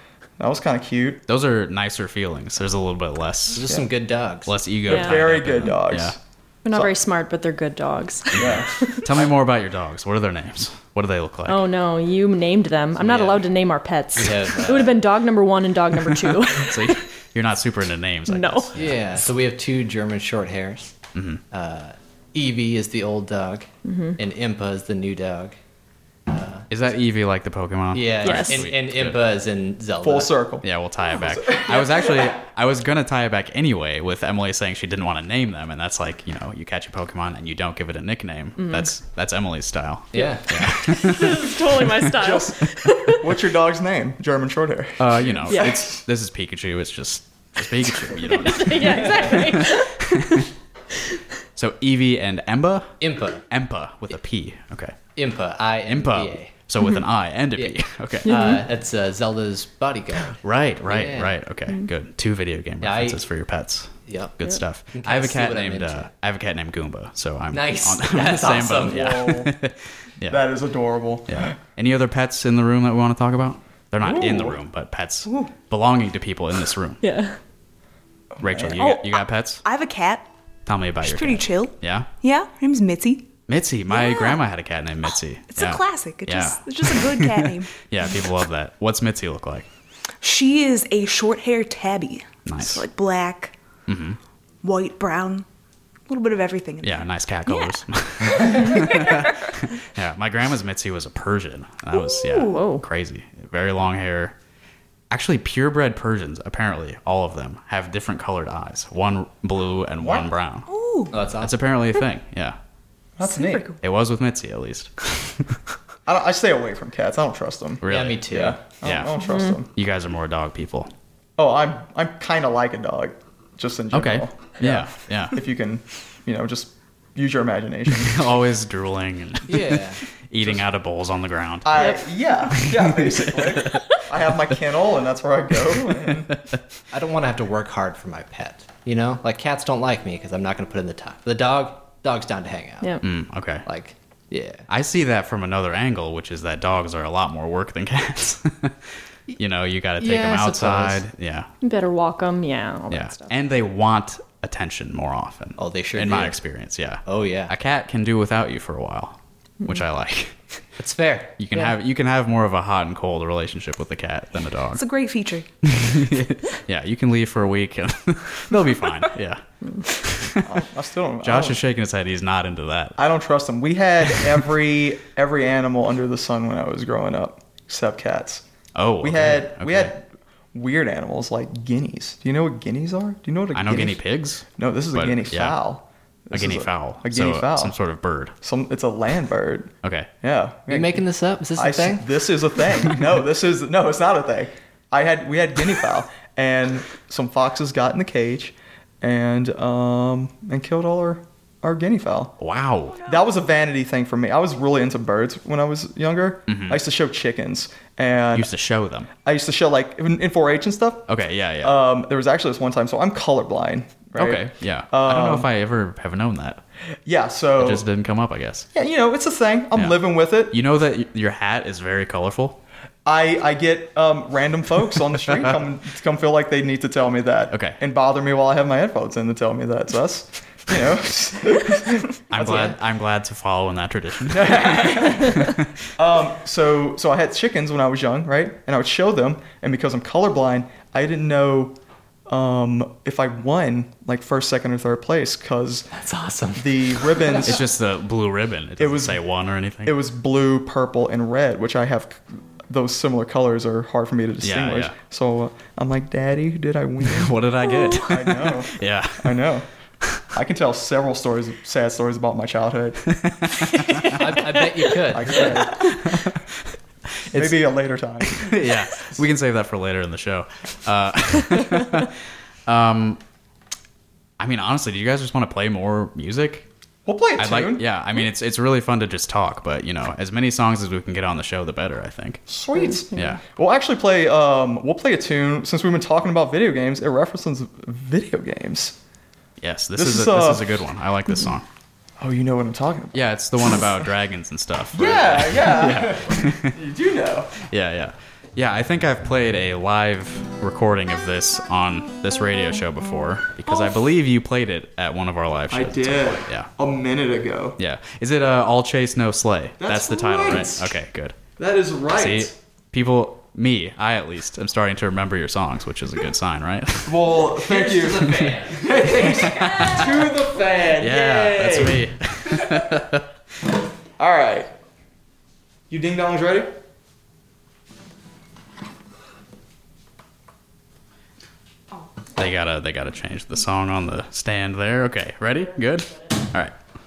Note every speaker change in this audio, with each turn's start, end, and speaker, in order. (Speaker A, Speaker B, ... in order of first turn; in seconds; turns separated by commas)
Speaker A: 0.4-1.2, Speaker B: 1.3-3.6, Speaker C: 3.5-4.5, Speaker B: 4.4-6.2, Speaker A: 4.9-6.2, Speaker D: 4.9-5.2, Speaker D: 6.6-9.0, Speaker A: 8.3-9.0, Speaker B: 8.3-11.6, Speaker D: 11.4-17.0, Speaker C: 13.0-13.5, Speaker C: 14.1-15.0, Speaker B: 16.5-18.9, Speaker D: 18.3-18.8, Speaker C: 18.8-20.9, Speaker B: 21.1-21.4, Speaker C: 21.5-25.6, Speaker D: 23.8-24.2, Speaker C: 26.3-26.6, Speaker B: 26.7-29.2, Speaker C: 27.9-30.3, Speaker D: 28.2-28.7, Speaker A: 30.0-32.3, Speaker B: 30.6-41.5, Speaker D: 38.6-38.9, Speaker C: 40.1-40.6, Speaker D: 40.8-43.3, Speaker A: 42.1-46.0, Speaker B: 45.0-50.5, Speaker D: 45.5-45.8, Speaker D: 48.1-50.4, Speaker B: 51.5-55.0, Speaker C: 53.0-53.4, Speaker C: 55.1-56.5, Speaker B: 55.8-58.6, Speaker C: 57.5-61.4, Speaker D: 58.2-58.6, Speaker B: 60.4-70.4, Speaker C: 62.8-63.2, Speaker C: 64.0-66.1, Speaker C: 67.5-69.1, Speaker A: 68.7-69.5, Speaker A: 70.3-71.6, Speaker B: 71.3-77.0, Speaker A: 74.0-74.6, Speaker D: 77.0-77.4, Speaker A: 78.4-78.8, Speaker B: 78.4-79.6, Speaker E: 78.8-80.3, Speaker B: 80.7-82.1, Speaker E: 81.0-83.3, Speaker B: 83.5-89.7, Speaker E: 83.9-84.4, Speaker E: 85.5-87.7, Speaker E: 90.2-93.5, Speaker B: 92.5-92.8, Speaker B: 93.9-94.2, Speaker E: 94.6-95.4, Speaker E: 96.1-97.7, Speaker B: 96.8-104.3, Speaker E: 98.3-99.2, Speaker D: 102.3-102.8, Speaker B: 105.1-110.7, Speaker A: 110.0-110.3, Speaker E: 110.7-111.2, Speaker C: 111.1-111.5, Speaker B: 111.4-112.6, Speaker A: 113.2-113.7, Speaker E: 113.2-113.8, Speaker B: 113.8-115.6, Speaker A: 116.0-119.7, Speaker B: 117.8-118.3, Speaker C: 117.9-118.6, Speaker B: 118.8-119.2, Speaker D: 119.2-119.5, Speaker B: 119.7-120.9, Speaker A: 121.4-128.4, Speaker B: 123.9-125.4, Speaker B: 127.9-132.0, Speaker C: 129.5-130.0, Speaker A: 131.6-136.3, Speaker B: 132.5-133.8, Speaker C: 136.9-143.0, Speaker B: 143.0-143.6, Speaker C: 143.6-144.7, Speaker B: 144.7-148.8, Speaker B: 149.4-151.5, Speaker C: 150.0-151.0, Speaker D: 151.6-153.3, Speaker B: 152.9-160.3, Speaker C: 155.6-156.4, Speaker C: 157.0-157.5, Speaker C: 160.8-161.7, Speaker B: 161.4-164.8, Speaker E: 164.7-165.5, Speaker B: 165.6-170.6, Speaker A: 170.4-171.6, Speaker B: 171.2-173.0, Speaker A: 173.0-178.4, Speaker B: 178.8-179.9, Speaker A: 179.0-187.8, Speaker B: 183.5-185.6, Speaker B: 186.3-188.3, Speaker A: 188.4-202.3, Speaker B: 189.8-190.1, Speaker C: 190.7-192.0, Speaker B: 202.4-203.0, Speaker A: 203.0-208.5, Speaker B: 206.5-206.8, Speaker B: 208.3-209.1, Speaker A: 209.2-215.5, Speaker B: 211.1-211.8, Speaker B: 214.1-216.6, Speaker A: 217.1-217.8, Speaker B: 217.6-218.7, Speaker A: 218.7-220.6, Speaker B: 219.7-222.6, Speaker A: 223.0-232.8, Speaker B: 227.5-227.8, Speaker B: 232.3-235.7, Speaker A: 234.3-235.4, Speaker A: 236.0-245.9, Speaker C: 245.9-247.6, Speaker A: 246.5-247.6, Speaker B: 247.4-249.9, Speaker A: 248.8-249.2, Speaker A: 249.8-257.4, Speaker B: 254.4-254.9, Speaker B: 257.0-259.4, Speaker D: 257.6-258.1, Speaker A: 257.9-259.7, Speaker A: 260.3-263.2, Speaker B: 263.2-264.2, Speaker C: 264.1-265.5, Speaker A: 265.1-265.9, Speaker B: 265.8-266.4, Speaker B: 267.3-267.6, Speaker A: 267.3-268.6, Speaker B: 268.2-272.1, Speaker B: 272.7-273.2, Speaker B: 274.4-276.7, Speaker A: 277.0-277.9, Speaker B: 277.4-282.4, Speaker A: 282.5-288.9, Speaker B: 283.1-283.4, Speaker B: 289.6-291.6, Speaker A: 289.9-290.8, Speaker A: 292.2-293.9, Speaker B: 293.1-296.8, Speaker A: 294.9-297.5, Speaker B: 297.6-306.7, Speaker A: 303.7-303.9, Speaker A: 305.7-307.8, Speaker B: 307.8-311.4, Speaker A: 309.8-311.0, Speaker A: 311.6-312.5, Speaker B: 312.1-317.4, Speaker A: 317.1-323.0, Speaker C: 317.6-319.9, Speaker B: 318.3-318.6, Speaker B: 319.3-320.1, Speaker B: 321.0-323.3, Speaker A: 324.2-324.7, Speaker A: 325.9-326.7, Speaker B: 332.4-336.7